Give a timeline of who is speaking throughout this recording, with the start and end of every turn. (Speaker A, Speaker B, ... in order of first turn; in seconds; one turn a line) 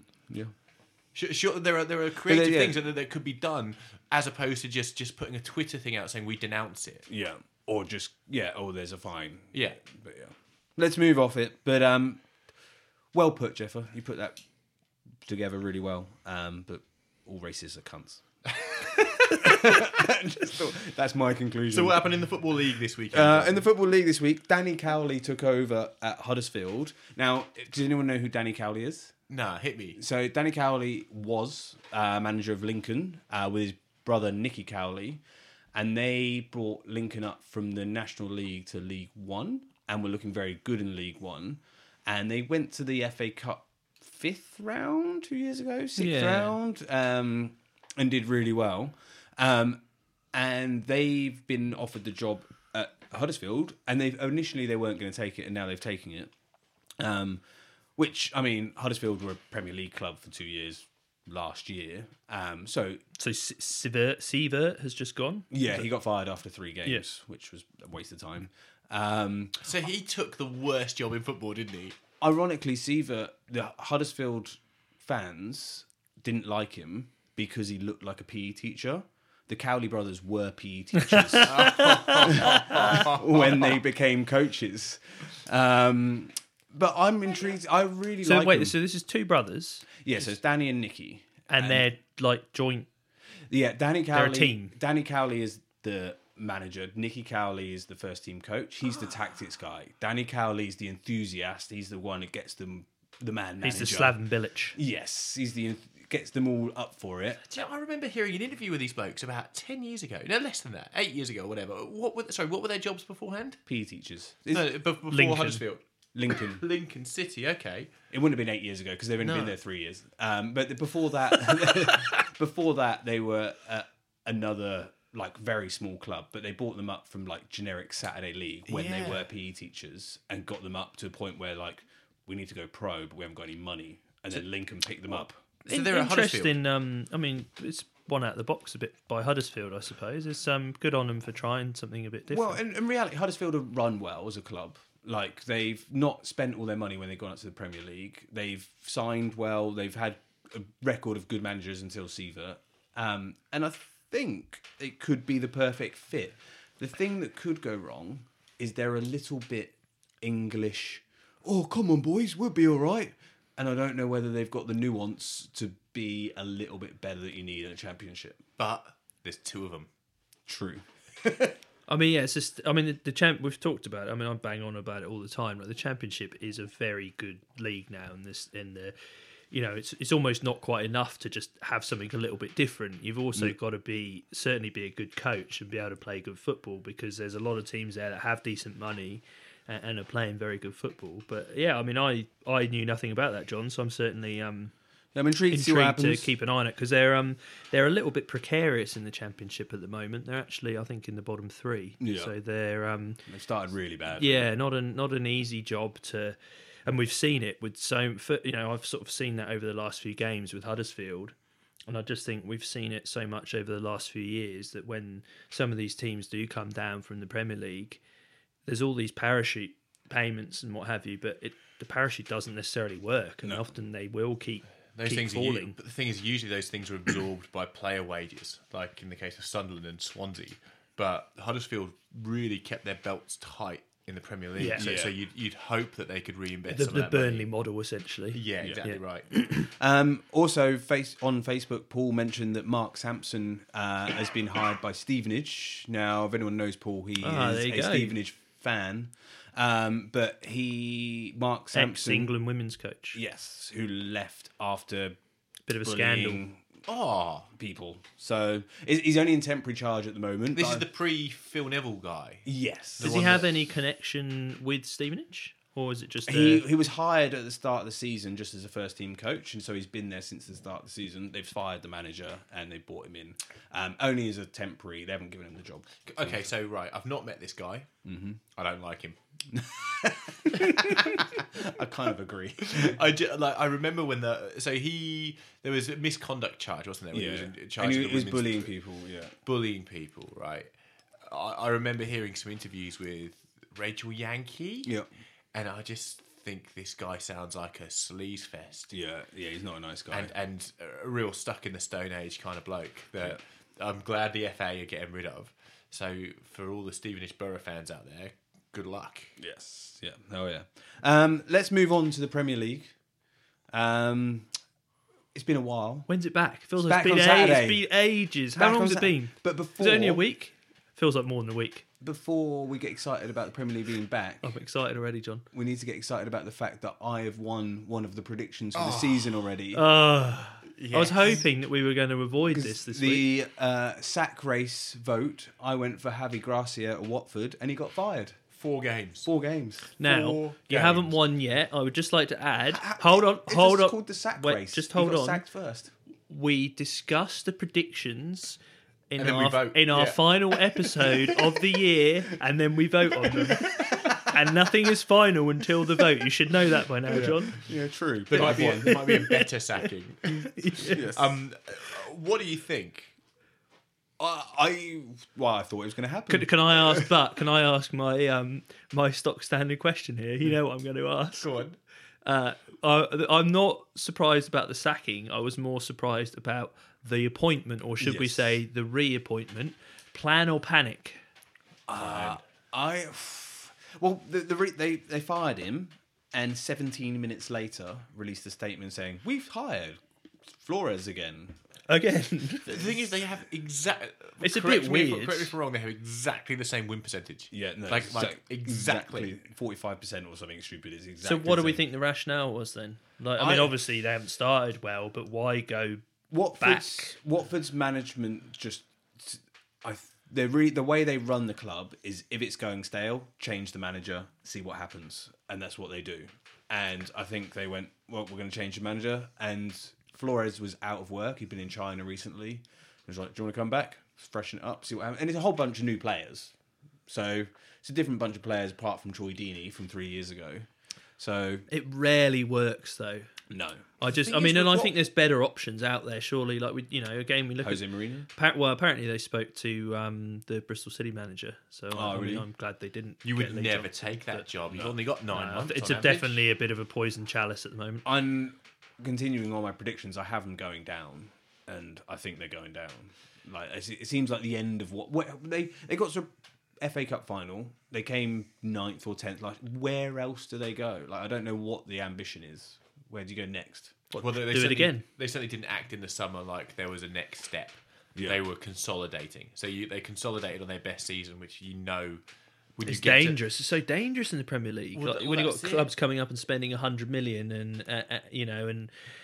Speaker A: 1.1-7.0
Speaker B: 2.2-2.8
Speaker B: 7.1-12.2
Speaker A: 9.5-9.8
Speaker B: 13.1-14.4
Speaker B: 15.2-22.2
Speaker A: 21.7-23.6
Speaker B: 23.1-29.1
Speaker A: 29.3-30.0
Speaker B: 29.9-35.2
Speaker B: 35.7-49.8
Speaker C: 46.0-46.5
Speaker B: 50.3-56.3
Speaker B: 57.0-57.4
Speaker B: 58.0-63.0
Speaker C: 63.2-65.9
Speaker B: 65.5-69.7
Speaker A: 69.6-72.0
Speaker B: 72.2-88.8
Speaker C: 81.1-83.0
Speaker A: 81.4-83.8
Speaker C: 88.2-89.9
Speaker B: 90.0-91.8
Speaker C: 91.5-92.9
Speaker B: 93.5-104.2
Speaker C: 94.1-94.7
Speaker C: 103.6-104.8
Speaker B: 104.7-107.4
Speaker A: 107.4-113.6
Speaker B: 113.7-114.7
Speaker A: 114.5-117.9
Speaker C: 115.1-115.6
Speaker B: 116.1-116.6
Speaker B: 118.1-135.4
Speaker A: 119.2-119.5
Speaker A: 128.7-129.2
Speaker A: 135.7-136.5
Speaker C: 135.7-142.6
Speaker B: 142.3-168.4
Speaker A: 168.6-169.9
Speaker B: 170.5-171.5
Speaker C: 171.9-178.9
Speaker C: 179.5-194.7
Speaker B: 195.1-196.3
Speaker C: 195.5-203.2
Speaker B: 202.0-202.3
Speaker B: 203.2-204.5
Speaker C: 204.2-211.3
Speaker C: 211.9-218.0
Speaker C: 218.7-225.8
Speaker A: 224.9-237.5
Speaker C: 234.6-234.9
Speaker B: 234.7-235.1
Speaker C: 236.7-239.7
Speaker A: 238.3-239.3
Speaker B: 238.6-238.8
Speaker B: 239.6-252.3
Speaker C: 247.2-248.2
Speaker C: 251.7-253.2
Speaker B: 253.1-255.2
Speaker C: 255.7-256.4
Speaker B: 255.8-256.6
Speaker A: 256.9-257.5
Speaker B: 257.5-260.9
Speaker A: 260.5-263.5
Speaker B: 262.4-263.4
Speaker C: 263.0-266.7
Speaker B: 266.2-276.5
Speaker A: 276.1-277.9
Speaker B: 278.0-278.4
Speaker A: 278.6-279.2
Speaker B: 279.5-283.0
Speaker A: 280.5-281.3
Speaker A: 282.6-288.7
Speaker B: 287.1-289.3
Speaker A: 289.4-290.7
Speaker A: 291.2-294.9
Speaker A: 295.5-298.9
Speaker B: 298.9-300.3
Speaker A: 300.1-309.3
Speaker B: 309.4-312.9
Speaker B: 313.7-314.5
Speaker B: 315.3-316.1
Speaker C: 316.1-321.8
Speaker B: 316.8-317.9
Speaker B: 318.5-320.2
Speaker B: 322.0-324.5
Speaker C: 324.4-325.4
Speaker B: 325.5-329.8
Speaker A: 328.7-329.5
Speaker C: 329.7-333.2
Speaker A: 330.7-331.4
Speaker B: 332.5-338.4
Speaker A: 338.6-339.3
Speaker B: 339.2-339.9
Speaker A: 340.0-341.1
Speaker C: 340.0-345.4
Speaker B: 342.7-345.9
Speaker C: 346.3-348.6
Speaker C: 349.1-357.6
Speaker A: 349.2-351.1
Speaker B: 353.3-354.4
Speaker B: 357.1-359.2
Speaker A: 358.3-363.1
Speaker C: 358.3-359.5
Speaker C: 360.4-361.1
Speaker B: 360.9-361.3
Speaker B: 364.2-367.1
Speaker C: 366.3-371.5
Speaker A: 371.4-371.8
Speaker C: 372.2-381.2
Speaker B: 378.0-378.6
Speaker B: 381.9-391.6
Speaker A: 381.9-382.4
Speaker C: 391.9-392.8
Speaker A: 392.6-399.3
Speaker C: 394.4-395.5
Speaker B: 397.5-401.8
Speaker C: 401.2-406.0
Speaker B: 403.4-403.7
Speaker B: 406.3-426.5
Speaker C: 406.6-407.1
Speaker B: 427.1-430.7
Speaker B: 431.2-431.6
Speaker C: 431.7-433.3
Speaker B: 433.5-434.9
Speaker C: 434.0-444.5
Speaker B: 437.6-438.3
Speaker B: 441.9-442.4
Speaker A: 443.2-446.4
Speaker C: 445.3-448.0
Speaker B: 448.0-464.0
Speaker C: 464.1-465.0
Speaker A: 464.2-472.2
Speaker A: 472.8-473.4
Speaker C: 472.9-478.9
Speaker A: 474.9-475.9